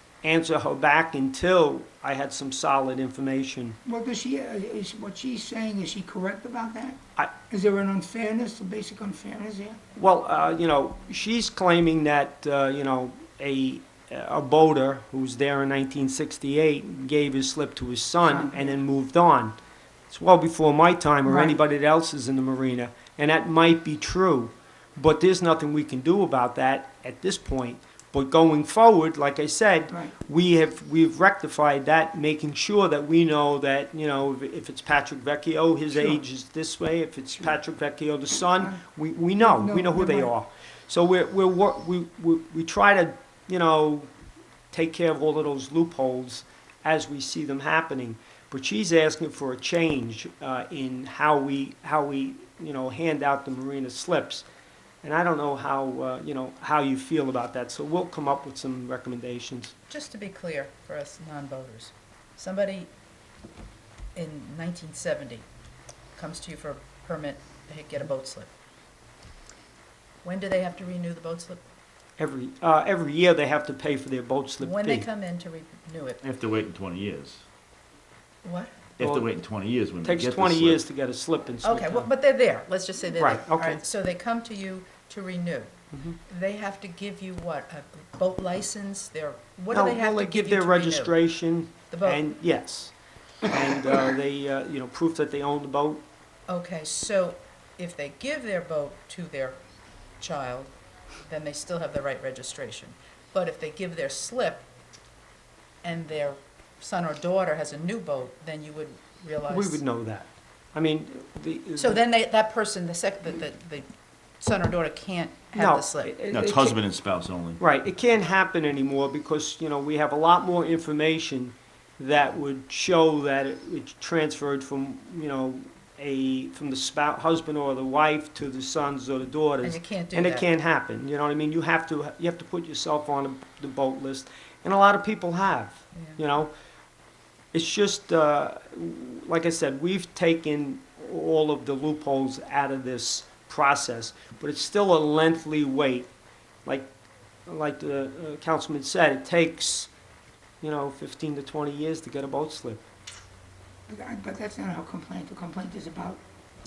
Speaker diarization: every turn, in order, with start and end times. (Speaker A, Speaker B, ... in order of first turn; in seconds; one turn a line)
Speaker A: 0.2-3.8
Speaker B: 3.9-9.8
Speaker A: 10.0-19.6
Speaker B: 18.2-18.8
Speaker A: 20.1-44.1
Speaker B: 21.3-21.6
Speaker B: 35.9-36.2
Speaker B: 39.4-40.3
Speaker A: 44.7-54.5
Speaker A: 55.0-59.7
Speaker C: 59.9-62.9
Speaker C: 64.2-65.5
Speaker C: 66.1-68.5
Speaker C: 70.2-71.7
Speaker A: 72.2-75.1
Speaker C: 74.6-76.2
Speaker D: 76.2-77.5
Speaker C: 78.4-78.8
Speaker D: 79.0-80.9
Speaker A: 79.0-79.3
Speaker A: 80.0-82.1
Speaker C: 81.6-92.2
Speaker A: 83.2-83.8
Speaker A: 85.9-86.2
Speaker A: 89.7-96.0
Speaker C: 96.5-99.6
Speaker C: 100.2-100.7
Speaker C: 101.2-104.7
Speaker C: 105.8-109.8
Speaker A: 109.5-112.0
Speaker C: 111.8-113.9
Speaker C: 114.4-116.2
Speaker A: 115.6-116.8
Speaker D: 116.3-117.6
Speaker A: 117.6-136.5
Speaker C: 129.6-130.5
Speaker C: 135.9-136.2
Speaker A: 137.5-146.1
Speaker A: 146.7-146.9
Speaker A: 147.5-149.9
Speaker A: 150.6-152.9
Speaker B: 153.9-156.2